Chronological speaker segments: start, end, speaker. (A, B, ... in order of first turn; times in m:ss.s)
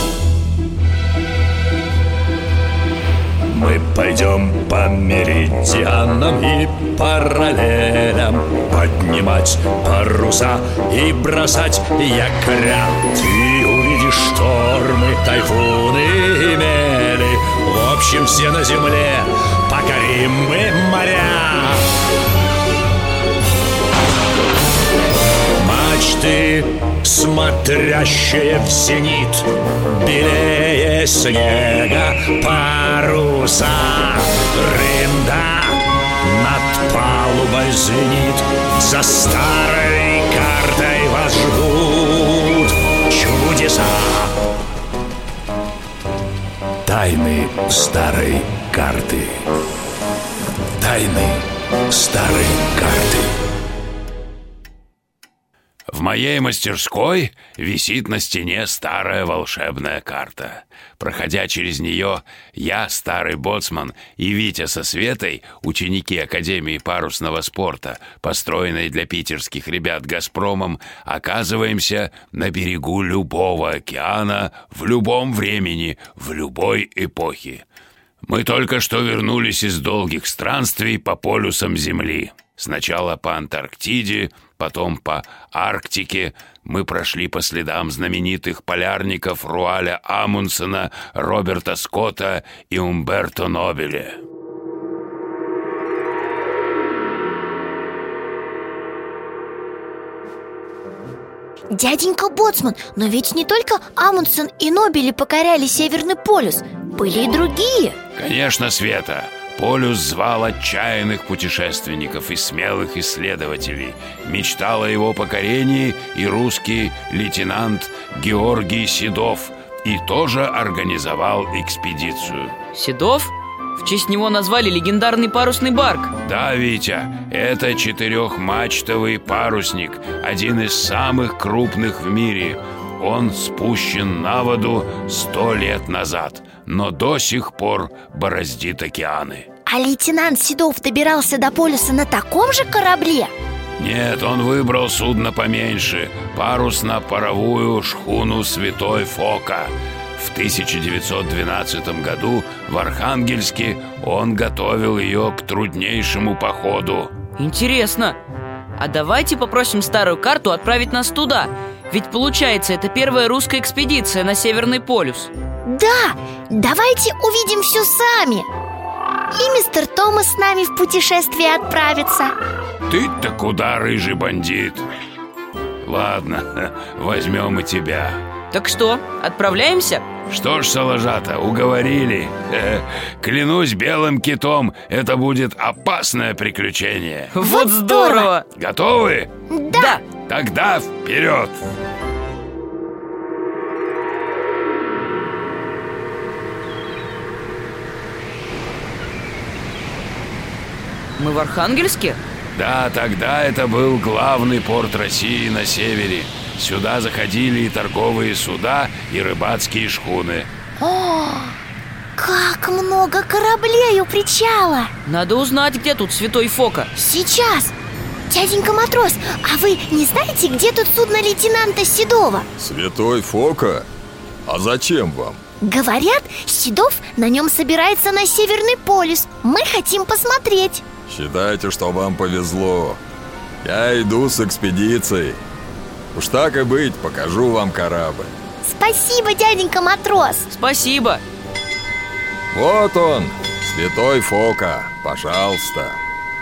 0:03.5-0:21.9 A
0:25.6-0:44.4 A
0:46.8-0:49.4 A
0:50.8-0:53.3 A
0:55.9-1:17.6 B
1:18.2-1:34.2 B
1:41.7-1:48.0 C
1:48.2-2:02.6 B
2:02.7-2:06.1 D
2:06.2-2:19.5 B
2:19.7-2:23.3 C
2:23.8-2:37.1 B
2:37.4-2:38.2 D
2:38.8-2:45.3 D
2:45.6-2:48.5 C
2:49.3-2:52.3 C
2:52.9-2:54.9 B
2:55.8-2:58.2 B
2:58.5-3:00.0 D
3:00.3-3:07.3 B
3:07.3-3:08.4 D
3:07.4-3:08.3 C
3:08.5-3:09.3 B
3:09.5-3:10.0 C
3:09.7-3:10.0 D
3:10.2-3:11.6 B
3:21.2-3:22.2 D
3:22.5-3:30.5 B
3:30.8-3:31.6 C
3:32.2-3:34.9 C
3:35.1-3:36.9 D
3:36.9-3:37.7 C
3:38.3-3:42.5 C
3:42.6-3:43.9 E
3:44.5-3:45.4 E
3:45.6-3:50.8 C
3:51.1-3:53.0 E
3:53.6-3:55.4 E
3:56.1-3:58.3 E
3:58.6-4:00.5 C
4:00.5-4:01.2 D
4:02.5-4:06.0 E